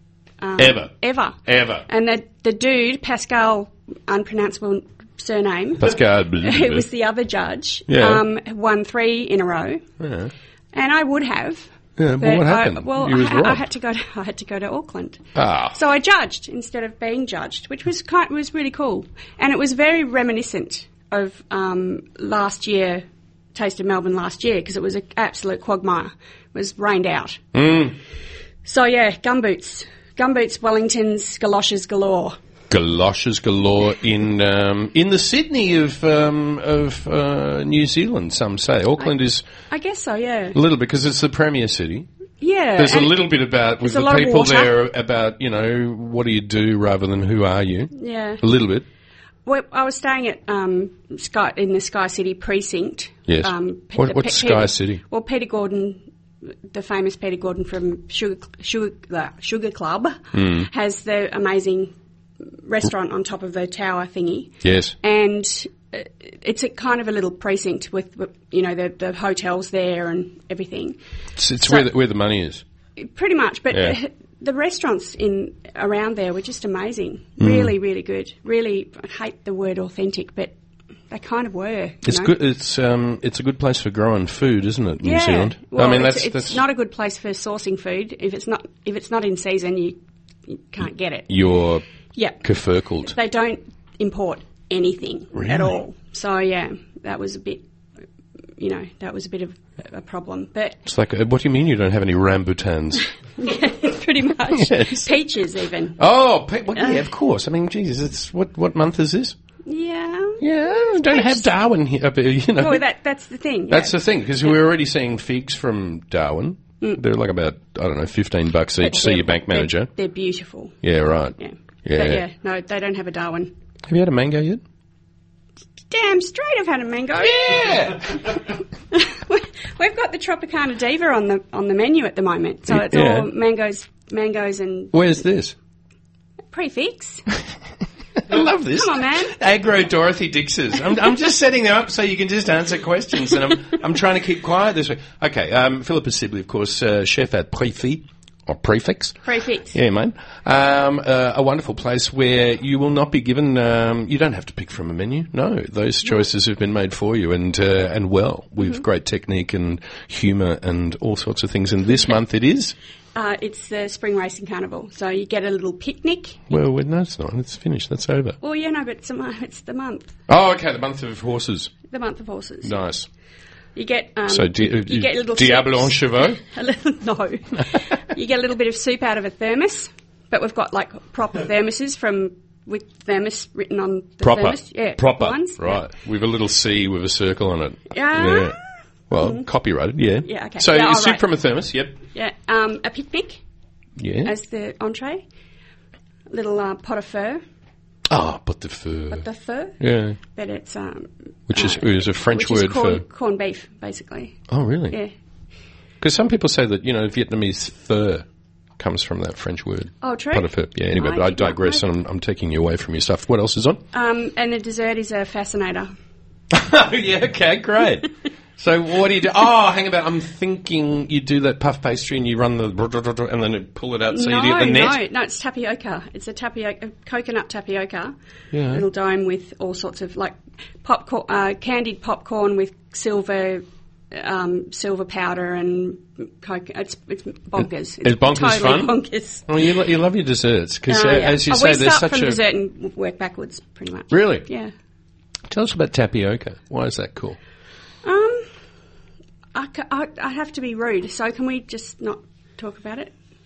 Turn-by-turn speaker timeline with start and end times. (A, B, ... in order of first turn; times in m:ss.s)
0:00.4-0:09.8 A
0:00.6-0:00.9 B
0:01.4-0:01.8 B
0:05.8-0:06.8 B
0:07.9-0:08.2 B
0:10.0-0:10.3 B
0:10.7-0:27.4 A
0:12.0-0:13.6 B
0:15.3-0:15.8 B
0:27.5-0:28.0 B
0:28.6-0:32.4 A
0:32.7-0:39.4 B
0:39.7-0:40.6 A
0:40.5-0:42.1 B
0:42.4-0:43.2 A
0:42.8-0:48.8 B
0:43.8-0:44.7 A
0:47.9-0:48.4 A
0:49.4-0:56.0 A
0:53.3-0:55.0 B
0:56.7-1:01.9 A
1:00.3-1:00.7 B
1:02.6-1:11.0 A
1:04.6-1:04.9 B
1:11.4-1:12.6 B
1:13.0-1:20.5 A
1:17.4-1:17.7 B
1:21.1-1:22.3 A
1:22.0-1:26.6 B
1:25.0-1:31.3 A
1:31.3-1:31.8 B
1:32.1-1:32.4 A
1:32.4-1:33.1 B
1:33.0-1:37.6 A
1:35.3-1:35.8 B
1:38.6-1:40.8 A
1:40.8-1:43.1 B
1:43.4-1:46.0 A
1:44.6-1:45.1 B
1:46.0-1:49.3 B
1:46.8-1:47.0 A
1:49.6-1:50.4 A
1:50.4-1:52.8 B
1:51.1-1:51.5 A
1:52.6-1:54.5 A
1:53.7-1:59.9 B
1:58.8-2:00.8 A
2:00.8-2:02.2 B
2:01.4-2:03.5 A
2:03.9-2:04.6 B
2:05.9-2:08.3 A
2:07.2-2:08.4 B
2:08.9-2:15.0 A
2:12.7-2:13.3 B
2:14.9-2:15.5 B
2:16.5-2:17.2 A
2:18.3-2:29.2 B
2:18.3-2:19.3 A
2:29.2-2:29.8 A
2:29.7-2:42.7 B
2:43.1-2:46.4 A
2:46.5-2:48.4 B
2:48.4-2:50.1 A
2:50.3-2:51.7 B
2:51.9-2:52.8 A
2:52.6-2:53.1 B
2:53.7-3:05.8 A
2:54.3-2:56.4 B
3:04.2-3:08.6 B
3:07.9-3:08.6 A
3:09.1-3:12.0 B
3:09.2-3:09.4 A
3:10.2-3:11.3 A
3:12.1-3:13.4 A
3:14.0-3:14.3 B
3:14.2-3:15.2 A
3:16.3-3:17.4 A
3:18.1-3:19.2 B
3:19.1-3:25.1 A
3:19.8-3:20.2 B
3:21.5-3:23.0 B
3:24.5-3:25.0 B
3:26.0-3:28.2 B
3:28.8-3:33.8 B
3:30.0-3:31.8 A
3:33.9-3:35.9 A
3:36.5-3:45.0 B
3:44.1-3:48.1 A
3:48.5-3:48.8 B
3:48.7-3:59.4 A
3:58.0-4:02.4 B
4:00.9-4:04.7 A
4:04.1-4:04.5 B
4:05.5-4:07.4 B
4:08.0-4:08.5 A
4:09.5-4:13.1 A